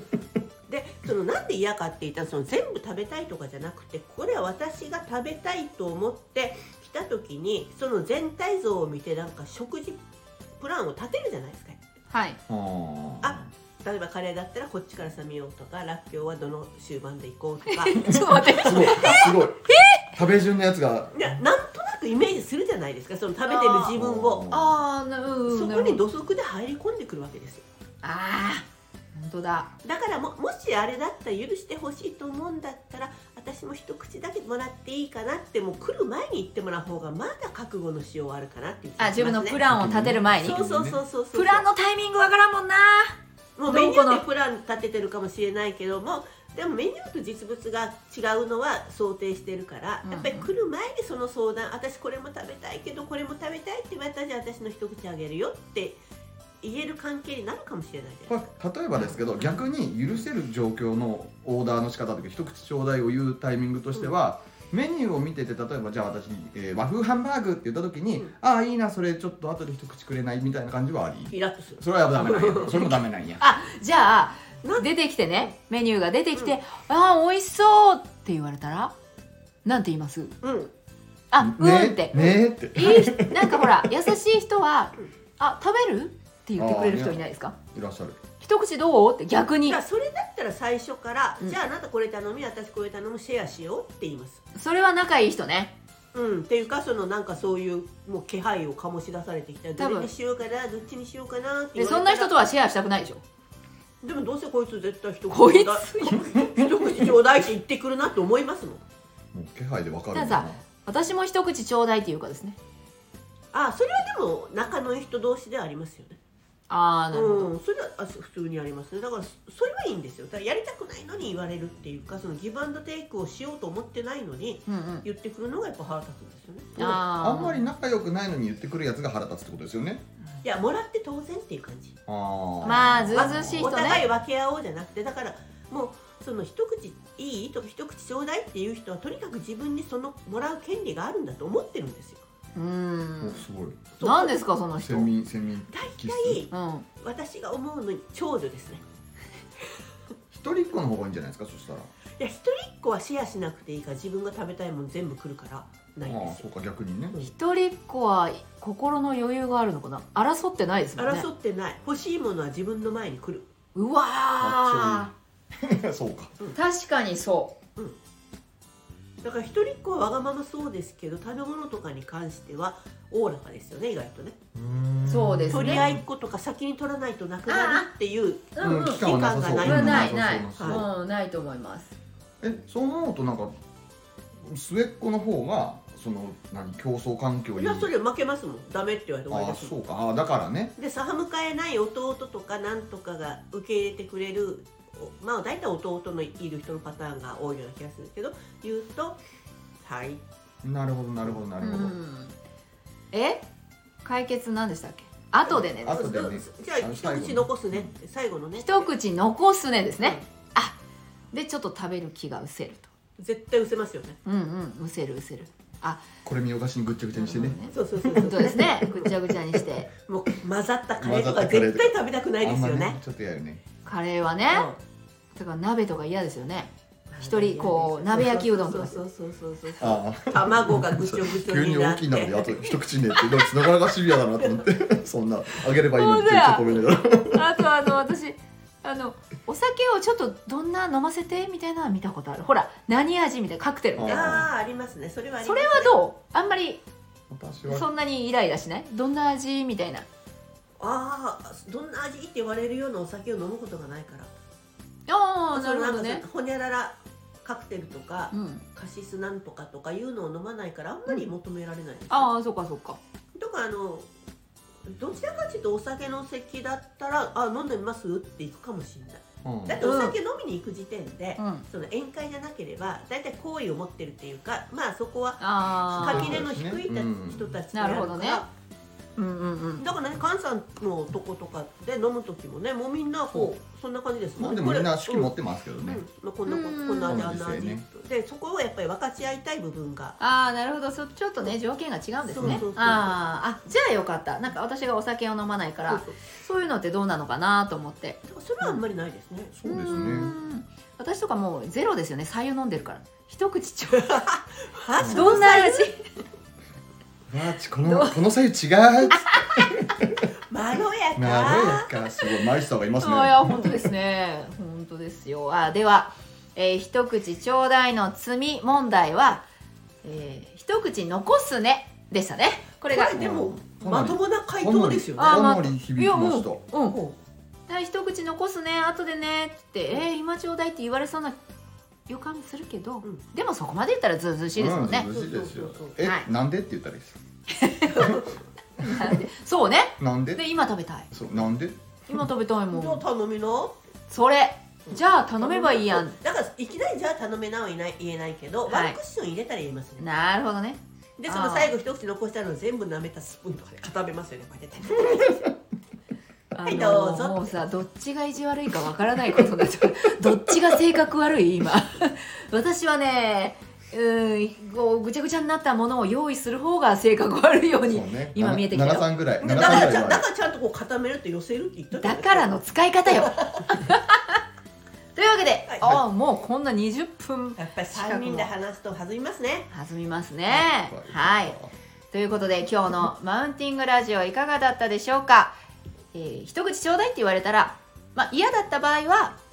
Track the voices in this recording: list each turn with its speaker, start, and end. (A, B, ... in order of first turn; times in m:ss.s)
0:00.7-0:10.0 A
0:10.6-0:11.8 A
0:12.1-0:12.4 B
0:12.5-0:13.4 C
0:13.2-0:19.3 A
0:17.7-0:20.0 B
0:18.1-0:21.4 C
0:21.1-0:24.4 A
0:23.4-0:23.9 B
0:23.9-0:24.8 C
0:24.5-0:26.0 B
0:25.5-0:27.6 A
0:28.0-0:29.7 B
0:29.8-0:39.6 A
0:39.0-0:40.6 B
0:39.6-0:41.0 C
0:40.4-0:41.7 A
0:41.3-0:43.2 B
0:43.6-0:56.0 A
0:43.7-0:44.2 B
0:50.0-0:50.5 B
0:56.6-0:58.4 A
0:58.3-1:13.5 C
0:58.9-0:59.5 A
1:11.3-1:12.9 A
1:13.4-1:18.9 B
1:19.6-1:20.3 B
1:20.4-1:20.7 A
1:21.3-1:27.5 B
1:21.4-1:23.9 C
1:26.6-1:28.2 C
1:28.4-1:29.8 B
1:29.6-1:34.4 A
1:34.5-1:35.8 B
1:36.1-1:42.3 A
1:39.8-1:40.1 B
1:41.8-1:43.2 B
1:44.0-1:48.8 A
1:45.3-1:46.2 B
1:49.3-1:50.6 C
1:50.1-1:52.6 B
1:53.5-1:56.2 A
1:56.7-1:57.5 B
1:57.1-2:06.8 A
2:04.7-2:05.0 B
2:06.8-2:07.6 B
2:06.8-2:10.0 C
2:10.4-2:11.9 A
2:12.1-2:13.9 C
2:12.6-2:14.0 B
2:13.1-2:22.2 A
2:22.5-2:23.4 B
2:23.2-2:23.9 C
2:24.0-2:24.4 A
2:24.0-2:25.1 B
2:24.8-2:26.4 C
2:25.7-2:28.8 A
2:26.5-2:26.9 B
2:30.3-2:31.9 C
2:32.2-2:36.5 A
2:36.0-2:37.2 C
2:37.2-2:41.3 B
2:41.0-2:43.5 A
2:43.8-2:45.1 B
2:44.4-2:46.3 C
2:46.5-2:47.5 B
2:49.2-2:54.3 A
2:54.5-2:56.0 C
2:55.0-2:55.9 B
2:55.5-3:00.9 A
2:57.5-2:57.9 B
2:58.5-3:01.9 B
2:58.6-3:00.9 C
3:02.4-3:03.5 C
3:04.4-3:07.9 C
3:07.6-3:09.8 A
3:09.3-3:10.7 C
3:10.8-3:19.2 A
3:19.8-3:20.2 A
3:20.6-3:22.0 C
3:21.6-3:22.3 B
3:23.1-3:23.4 B
3:24.0-3:26.1 B
3:25.5-3:27.9 C
3:25.5-3:28.9 A
3:28.6-3:30.8 B
3:31.3-3:32.9 B
3:33.2-3:34.2 A
3:34.2-3:36.0 B
3:36.2-3:37.6 C
3:37.1-3:39.9 B
3:37.7-3:39.1 A
3:40.1-3:43.0 A
3:41.0-3:43.6 C
3:43.8-3:44.7 B
3:44.5-3:44.8 A
3:45.3-3:49.0 B
3:47.1-3:53.7 A
3:49.8-3:57.5 C
3:55.9-4:04.4 B
4:04.0-4:04.5 C
4:04.1-4:06.0 A
4:05.4-4:06.8 B
4:07.3-4:07.9 C
4:07.7-4:10.1 B
4:10.8-4:14.3 A
4:15.1-4:16.2 B
4:15.5-4:22.3 A
4:18.3-4:18.6 B
4:22.1-4:23.0 B
4:23.4-4:24.1 A
4:24.9-4:38.5 A
4:29.4-4:29.8 C
4:29.8-4:30.2 B
4:31.4-4:31.6 B
4:35.4-4:36.4 B
4:35.9-4:37.5 C
4:37.7-4:38.4 B
4:39.2-4:39.9 B
4:39.8-4:45.3 A
4:44.4-4:46.0 C
4:45.9-4:50.2 A
4:46.5-4:47.2 B
4:47.1-4:47.9 C
4:50.2-4:58.8 B
4:52.2-4:53.2 A
4:55.9-4:56.2 A
4:58.2-4:59.6 A
4:59.6-5:00.4 C
4:59.6-5:04.2 B
5:04.0-5:05.9 A
5:05.0-5:05.4 C
5:05.1-5:06.0 B
5:07.3-5:10.2 C
5:07.8-5:08.2 B
5:09.1-5:09.7 B
5:10.5-5:11.9 A
5:11.2-5:13.7 C
5:13.0-5:19.4 B
5:20.0-5:23.1 B
5:22.9-5:25.4 A
5:23.1-5:26.6 C
5:25.2-5:27.0 B
5:26.9-5:27.2 A
5:27.7-5:31.4 B
5:32.1-5:35.1 B
5:34.6-5:37.2 C
5:35.1-5:36.0 A
5:36.0-5:36.2 B
5:37.5-5:38.2 B
5:37.9-5:38.3 A
5:38.8-5:41.1 B
5:40.0-5:40.4 C
5:41.1-5:41.8 C
5:42.1-5:43.0 B
5:42.7-5:43.8 A
5:44.1-5:46.2 B
5:44.9-5:50.0 A
5:48.7-5:49.0 B
5:50.0-5:51.7 B
5:51.2-5:55.5 A
5:56.5-6:09.7 B
5:56.6-5:57.5 A
6:07.9-6:10.2 C
6:09.4-6:13.7 A
6:11.9-6:14.4 B
6:15.1-6:18.5 B
6:15.7-6:16.0 A
6:17.6-6:19.7 A
6:19.7-6:21.6 B
6:20.5-6:21.7 C
6:22.1-6:25.6 B
6:26.1-6:29.4 B